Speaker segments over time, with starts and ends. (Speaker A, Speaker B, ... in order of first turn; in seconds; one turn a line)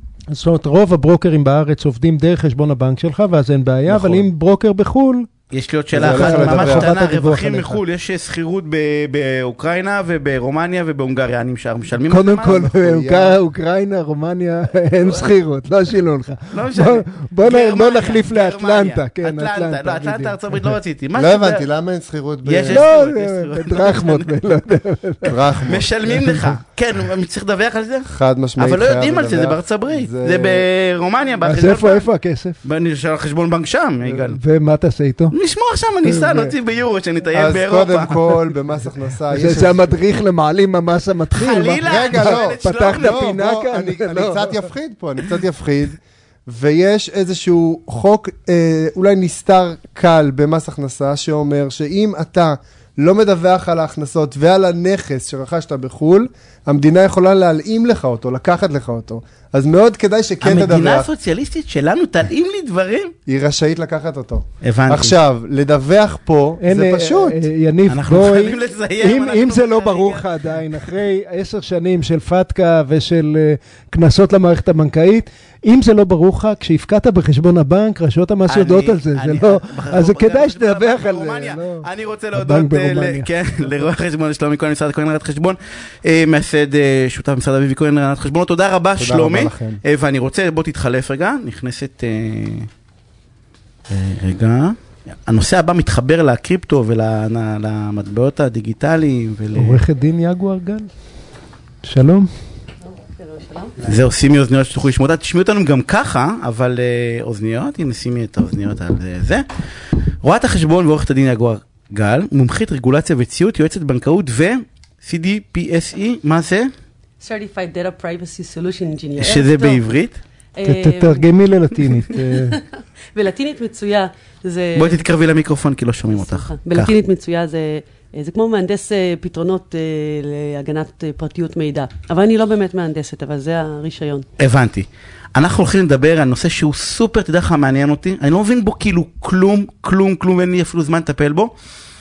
Speaker A: 0.3-5.3
Speaker B: 3.9-4.2
Speaker C: 5.5-12.7
Speaker B: 5.9-6.9
Speaker A: 6.0-7.8
Speaker A: 12.1-20.7
Speaker B: 12.4-13.4
Speaker C: 16.5-21.6
Speaker B: 21.1-22.9
Speaker C: 22.4-24.3
Speaker A: 22.7-25.4
Speaker B: 25.3-25.9
Speaker C: 25.6-32.0
Speaker A: 26.1-26.5
Speaker B: 28.1-30.6
Speaker A: 31.4-32.6
Speaker C: 32.6-34.4
Speaker A: 34.1-35.3
Speaker C: 35.3-38.4
Speaker A: 36.0-36.5
Speaker B: 37.3-39.9
Speaker A: 39.3-44.7
Speaker C: 41.3-43.2
Speaker B: 41.9-61.1
Speaker C: 60.4-63.1
Speaker B: 63.2-67.4
Speaker C: 64.6-65.2
Speaker A: 66.6-83.3
Speaker C: 67.9-70.3
Speaker C: 78.5-92.7
Speaker B: 89.0-89.8
Speaker C: 93.9-99.8
Speaker A: 99.5-100.9
Speaker A: 101.8-102.3
Speaker D: 102.9-103.8
Speaker C: 103.8-109.4
Speaker C: 110.2-116.7
Speaker D: 117.2-119.8
Speaker C: 119.2-120.2
Speaker D: 120.6-125.0
Speaker A: 120.6-122.6
Speaker C: 124.8-126.9
Speaker D: 126.1-134.2
Speaker C: 134.4-141.5